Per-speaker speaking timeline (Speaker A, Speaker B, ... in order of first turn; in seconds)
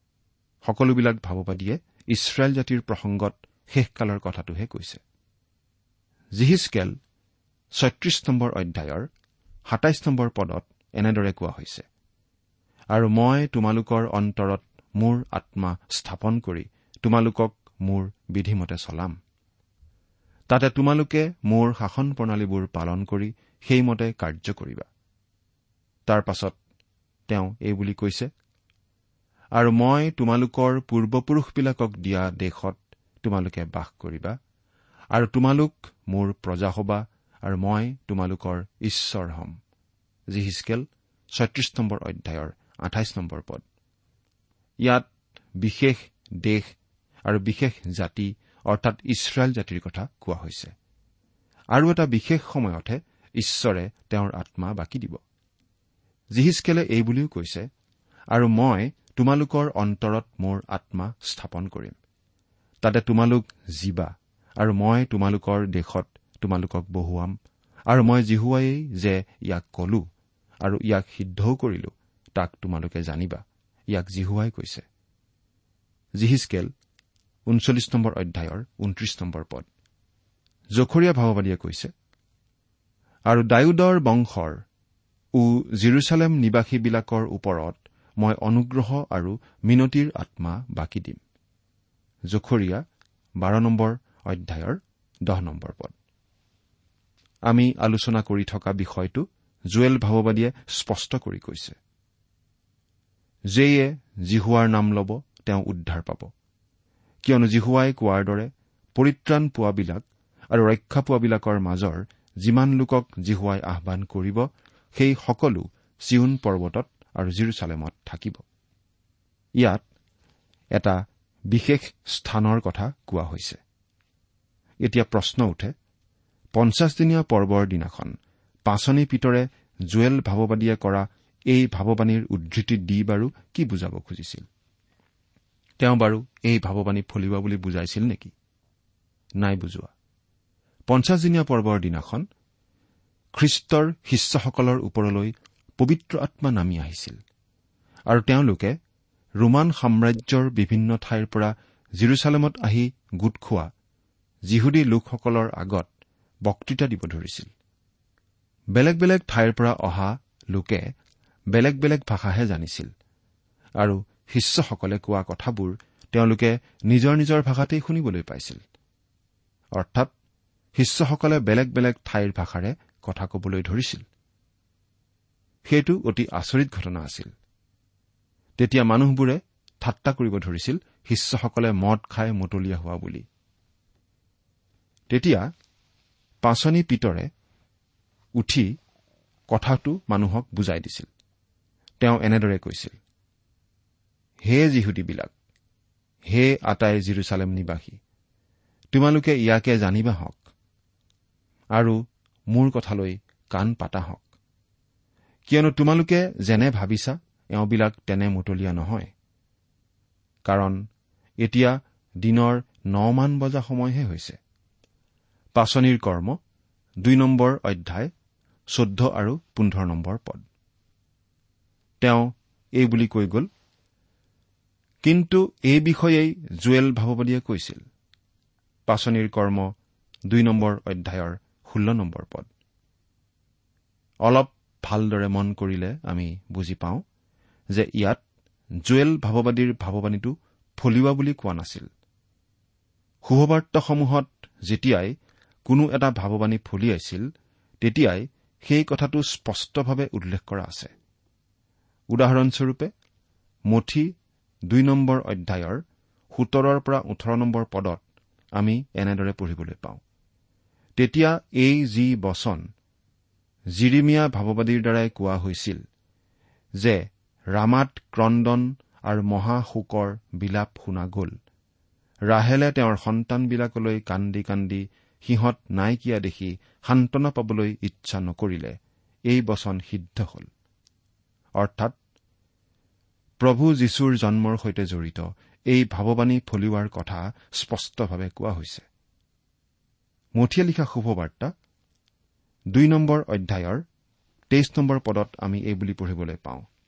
Speaker A: 0.7-5.0, 6.4-7.0, 7.8-9.1, 9.7-11.8, 12.9-19.2, 20.5-24.9, 26.1-26.6, 27.3-28.3, 29.6-34.4, 35.1-39.6, 40.3-43.6, 45.6-46.7, 47.3-50.7, 51.7-55.2, 56.3-57.7, 58.3-62.0, 62.8-67.3, 67.9-70.0, 70.6-74.8, 76.2-76.7, 77.5-79.7, 80.8-81.9, 83.3-84.6, 85.4-91.2, 92.3-92.8, 93.4-95.9, 97.5-101.8, 103.5-106.3, 107.2-118.4, 121.5-123.6, 124.8-125.7, 126.5-128.1, 128.7-134.5, 135.8-138.3, 139.4-139.9, 140.9-142.3, 143.3-147.2, 148.1-148.8, 149.4-153.7, 154.5-155.9, 156.5-157.5, 158.8-160.9, 161.5-162.9, 163.8-168.6, 169.8-170.1, 170.8-174.0, 175.7-177.3, 178.6-183.2, 185.1-185.5, 186.4-187.3, 188.4-188.7, 189.5-191.1, 192.0-193.0, 194.4-195.3, 196.3-198.0, 198.9-200.4, 202.5-204.2, 205.5-209.1, 210.5-210.8, 211.4-214.4, 215.6-216.4, 217.0-218.1, 218.7-220.4, 222.0-223.5, 225.1-227.8, 228.9-229.7, 230.3-232.5, 234.3-237.0, 237.7-238.2, 238.8-241.9, 243.2-245.2, 245.7-247.2, 247.8-250.9, 252.1-252.9, 253.7-254.1, 254.7-258.0, 258.6-260.0, 261.0-262.6, 263.8-265.8, 267.5-271.3, 272.3-278.8, 279.3-280.5, 281.6-282.0, 283.4-288.9, 290.4-291.5, 292.7-293.8, 294.5-296.6